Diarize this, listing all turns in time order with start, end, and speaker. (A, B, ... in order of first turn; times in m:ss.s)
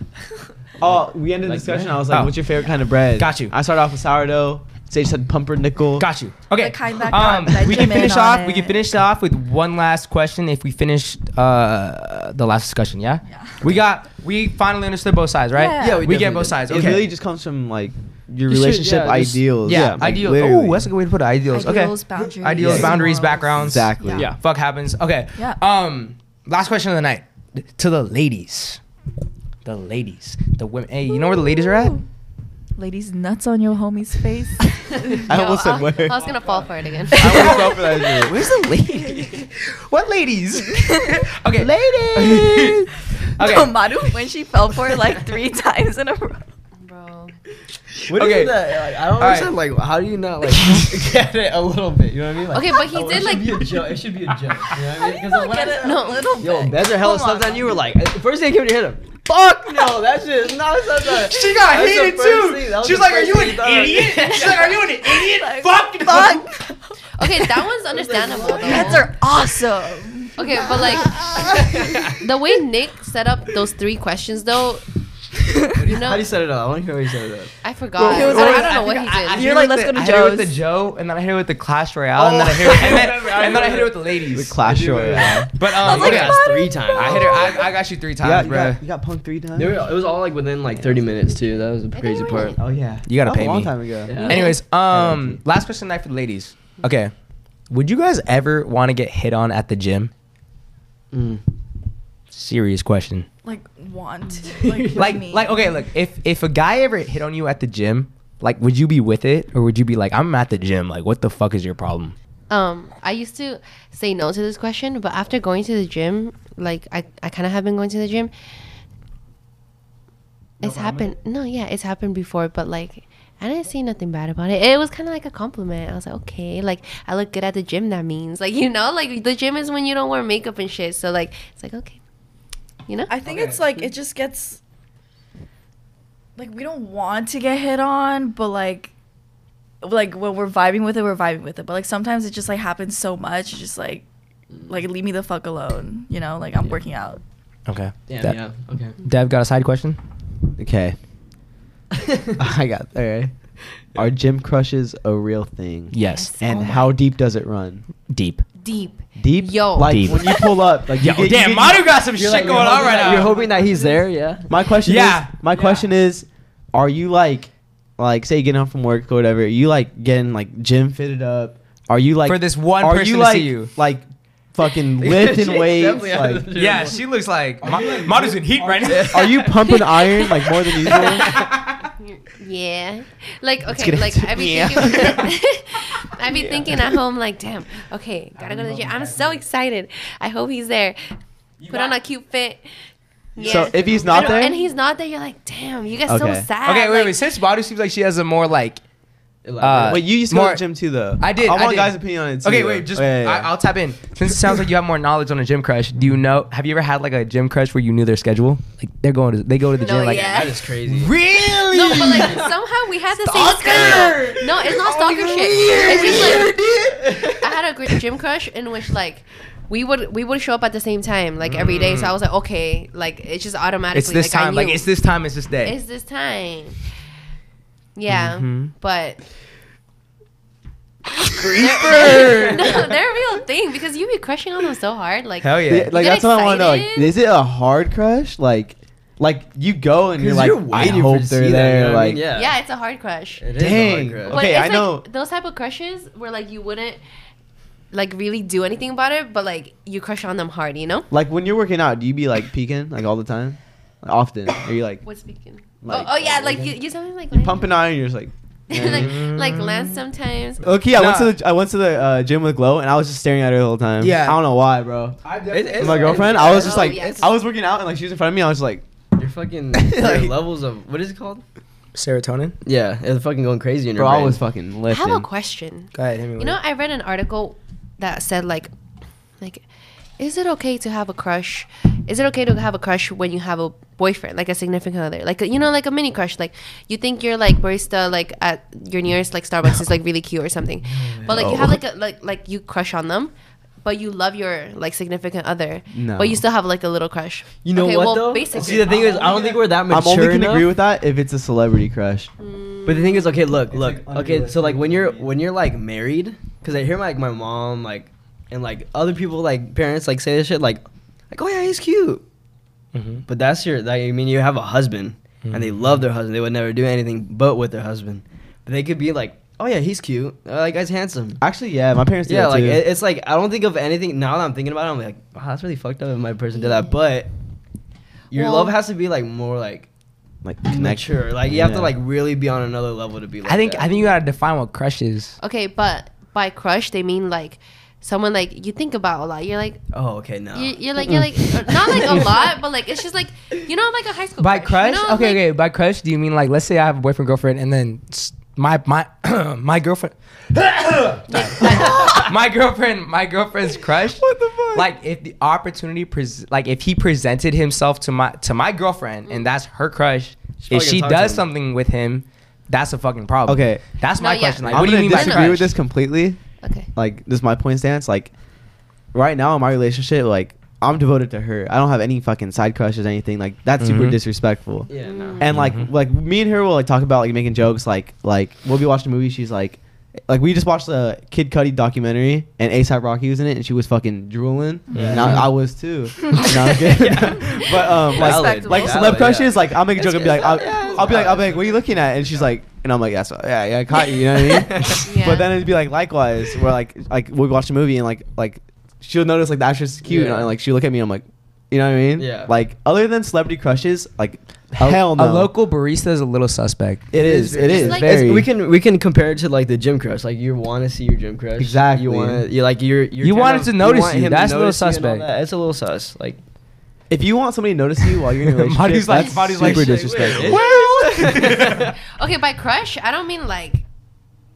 0:00.8-0:06.1 A
0:00.8-0:02.1 B
0:02.1-0:02.4 C
0:03.1-0:03.5 C
0:06.0-0:17.1 C
0:06.6-0:08.8 D
0:15.6-0:16.1 D
0:15.8-0:17.1 B
0:16.7-0:20.9 A
0:18.5-0:20.0 B
0:19.6-0:28.8 C
0:21.5-0:24.2 D
0:22.6-0:24.3 A
0:22.6-0:22.9 B
0:29.6-0:32.0 C
0:31.1-0:32.0 D
0:32.8-0:35.3 D
0:35.1-0:37.7 E
0:35.3-0:36.4 A
0:36.1-0:36.7 B
0:37.1-0:38.3 D
0:37.2-0:38.5 A
0:37.3-0:37.7 C
0:38.2-0:43.7 C
0:40.8-0:41.2 D
0:41.6-0:42.4 A
0:42.2-0:42.7 D
0:43.4-0:46.4 D
0:46.8-0:47.4 E
0:48.1-1:04.7 B
0:48.1-0:49.5 C
0:52.5-0:53.7 E
0:54.9-0:57.8 D
0:55.8-0:56.3 E
1:01.0-1:06.5 C
1:05.0-1:06.6 D
1:07.2-1:09.1 E
1:07.9-1:09.1 B
1:08.5-1:10.5 D
1:10.4-1:14.9 E
1:11.5-1:12.0 B
1:15.7-1:17.6 B
1:15.8-1:16.3 E
1:17.6-1:19.5 E
1:18.0-1:18.7 D
1:18.1-1:24.6 C
1:19.3-1:20.6 D
1:22.2-1:27.7 B
1:22.6-1:23.6 A
1:24.3-1:25.5 A
1:25.5-1:28.8 C
1:25.8-1:27.6 D
1:28.2-1:29.9 A
1:29.6-1:32.6 B
1:30.8-1:31.0 A
1:31.9-1:32.6 E
1:32.6-1:34.3 A
1:33.1-1:37.1 C
1:34.1-1:34.4 B
1:34.2-1:34.6 E
1:34.9-1:35.4 A
1:37.7-1:40.1 C
1:41.1-1:41.4 B
1:42.3-1:43.3 C
1:43.4-1:45.7 D
1:44.5-1:45.2 B
1:44.9-1:52.2 C
1:52.5-1:58.3 E
2:00.6-2:12.0 E
2:00.6-2:01.1 B
2:13.1-2:14.6 D
2:13.3-2:13.6 C
2:16.4-2:18.9 D
2:19.8-2:24.1 D
2:24.6-2:27.2 D
2:27.7-2:28.4 C
2:28.1-2:29.0 B
2:29.0-2:30.0 C
2:30.6-2:31.0 A
2:31.9-2:32.4 B
2:32.4-2:33.3 A
2:34.0-2:37.8 A
2:35.9-2:36.4 C
2:36.0-2:36.9 E
2:38.1-2:38.4 C
2:38.6-2:40.6 E
2:39.2-2:42.0 A
2:39.8-2:40.3 C
2:41.0-2:43.3 C
2:42.2-2:44.5 B
2:42.7-2:44.1 D
2:44.5-2:56.5 A
2:44.8-2:45.3 C
2:45.5-2:45.9 B
2:52.2-2:53.7 C
2:55.0-2:57.0 B
2:56.6-2:59.5 C
2:57.6-2:59.7 B
2:57.7-3:01.5 A
2:59.7-3:00.4 E
3:00.9-3:01.5 B
3:00.9-3:11.0 E
3:01.3-3:01.7 C
3:03.7-3:05.3 A
3:08.5-3:08.9 C
3:11.6-3:12.7 E
3:13.4-3:17.2 E
3:13.4-3:14.6 A
3:13.5-3:14.4 B
3:16.1-3:16.5 A
3:16.6-3:18.8 C
3:19.4-3:20.0 B
3:19.6-3:20.6 C
3:19.8-3:23.5 A
3:21.2-3:32.4 C
3:29.8-3:30.7 E
3:30.3-3:31.2 B
3:31.7-3:36.6 E
3:33.2-3:35.9 C
3:33.4-3:37.2 A
3:35.6-3:37.3 B
3:37.4-3:44.9 E
3:41.4-3:42.2 C
3:43.9-3:45.8 C
3:45.6-3:46.8 E
3:48.0-3:49.2 E
3:48.1-3:48.7 A
3:51.4-3:52.9 A
3:51.6-3:57.2 E
3:52.3-3:52.8 B
3:55.4-3:56.0 C
3:55.7-4:02.3 A
4:00.2-4:02.6 B
4:02.3-4:03.5 E
4:03.4-4:04.4 B
4:03.6-4:05.1 A
4:04.3-4:07.0 E
4:07.9-4:11.1 E
4:11.1-4:15.0 A
4:15.0-4:17.8 E
4:15.8-4:19.6 A
4:18.7-4:20.7 E
4:18.9-4:20.0 C
4:20.6-4:28.8 A
4:20.9-4:21.4 C
4:24.0-4:24.4 C
4:25.3-4:26.4 C
4:25.5-4:27.2 B
4:26.0-4:27.4 E
4:29.2-4:31.4 B
4:29.8-4:30.4 A
4:32.0-4:32.6 C
4:32.6-4:34.4 B
4:34.0-4:35.3 A
4:34.9-4:38.7 E
4:36.0-4:36.6 C
4:39.4-4:39.7 E
4:40.2-4:53.3 E
4:51.2-4:51.4 B
4:51.2-4:51.8 A
4:53.8-4:59.5 E
4:55.9-4:56.4 A
4:57.6-5:00.8 B
4:58.5-5:02.3 A
5:02.4-5:03.4 E
5:02.9-5:12.2 B
5:03.7-5:05.4 A
5:12.9-5:13.2 C
5:13.3-5:21.4 B
5:15.4-5:16.0 C
5:21.4-5:22.8 A
5:22.3-5:27.3 B
5:28.3-5:29.9 B
5:28.3-5:28.7 E
5:30.4-5:32.0 A
5:30.7-5:34.2 B
5:33.4-5:35.4 C
5:35.4-5:39.8 E
5:39.9-5:42.5 B
5:40.5-5:45.4 E
5:44.4-6:05.7 C
5:51.3-5:52.3 E
5:51.6-5:52.3 A
5:54.2-5:54.9 A
6:00.6-6:01.4 B
6:03.5-6:04.0 A
6:04.2-6:05.7 E
6:04.7-6:06.4 A
6:04.7-6:05.0 B
6:06.6-6:06.9 E
6:06.9-6:08.3 A
6:09.1-6:45.5 A
6:13.8-6:14.2 C
6:14.9-6:15.4 B
6:15.0-6:15.5 E
6:15.4-6:15.9 C
6:24.9-6:25.5 C
6:25.0-6:25.5 B
6:26.3-6:31.9 B
6:28.1-6:29.3 D
6:34.5-6:35.1 B
6:35.0-6:35.6 E
6:40.0-6:40.5 B
6:42.2-6:42.5 B
6:44.8-6:48.3 C
6:47.1-6:48.5 A
6:47.2-6:56.4 B
6:47.7-6:48.1 E
6:51.6-6:52.4 A
6:53.2-6:55.3 C
6:57.1-7:01.0 A
6:58.2-7:01.9 C
6:59.6-7:01.9 B
7:00.6-7:03.8 E